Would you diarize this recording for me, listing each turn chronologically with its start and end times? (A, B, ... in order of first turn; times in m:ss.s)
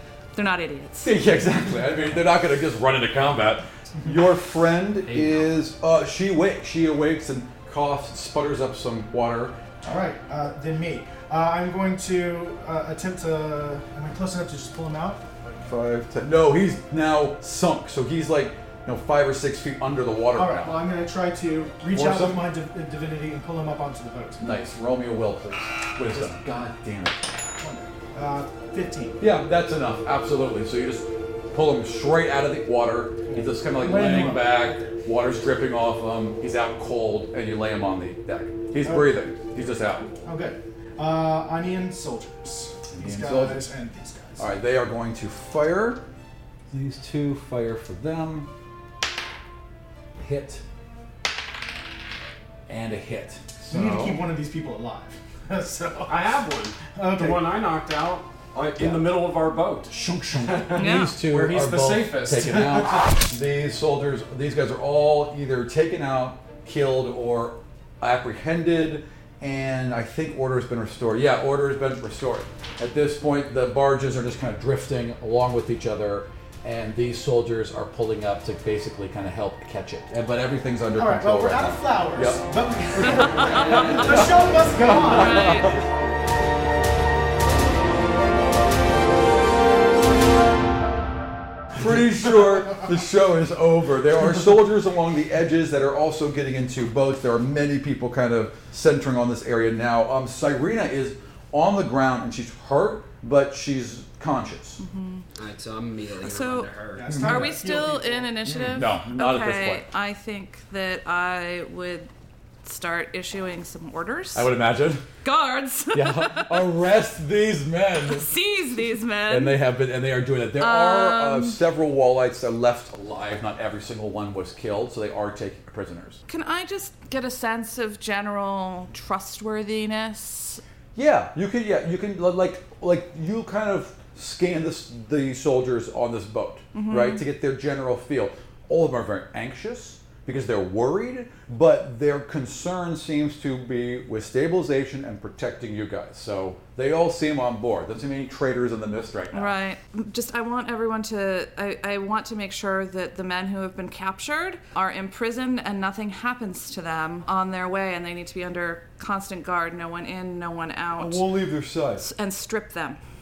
0:00.3-0:01.1 A
0:01.0-0:09.6 B
0:05.0-0:05.5 C
0:09.8-0:15.3 D
0:15.6-0:20.8 B
0:20.3-0:24.4 D
0:21.9-0:22.5 B
0:24.4-0:27.3 B
0:27.6-0:29.2 D
0:29.2-0:40.1 B
0:33.3-0:34.6 D
0:38.8-0:39.1 D
0:40.2-0:44.5 D
0:42.9-0:43.6 B
0:44.4-0:46.0 B
0:46.7-0:48.5 B
0:50.2-0:50.6 B
0:52.7-0:54.2 B
0:53.6-0:56.4 D
0:56.1-1:03.2 E
0:56.9-0:57.5 D
0:58.8-0:59.2 B
0:59.9-1:22.4 B
1:00.7-1:01.2 A
1:20.9-1:25.7 D
1:23.3-1:24.1 A
1:23.8-1:25.8 B
1:24.8-1:25.8 A
1:31.7-1:44.8 B
1:44.8-1:45.2 A
1:45.4-1:47.1 C
1:46.2-1:52.1 A
1:47.0-1:48.5 D
1:47.1-1:47.5 B
1:48.4-1:49.9 B
1:52.6-1:54.5 A
1:54.3-1:55.1 B
1:55.2-1:56.8 A
1:55.9-1:58.3 B
1:58.0-1:59.6 A
1:59.3-2:06.2 B
2:00.6-2:01.6 A
2:06.3-2:10.6 A
2:10.9-2:29.6 B
2:16.7-2:17.2 A
2:29.3-2:41.3 A
2:41.0-2:42.0 B
2:42.0-2:43.0 A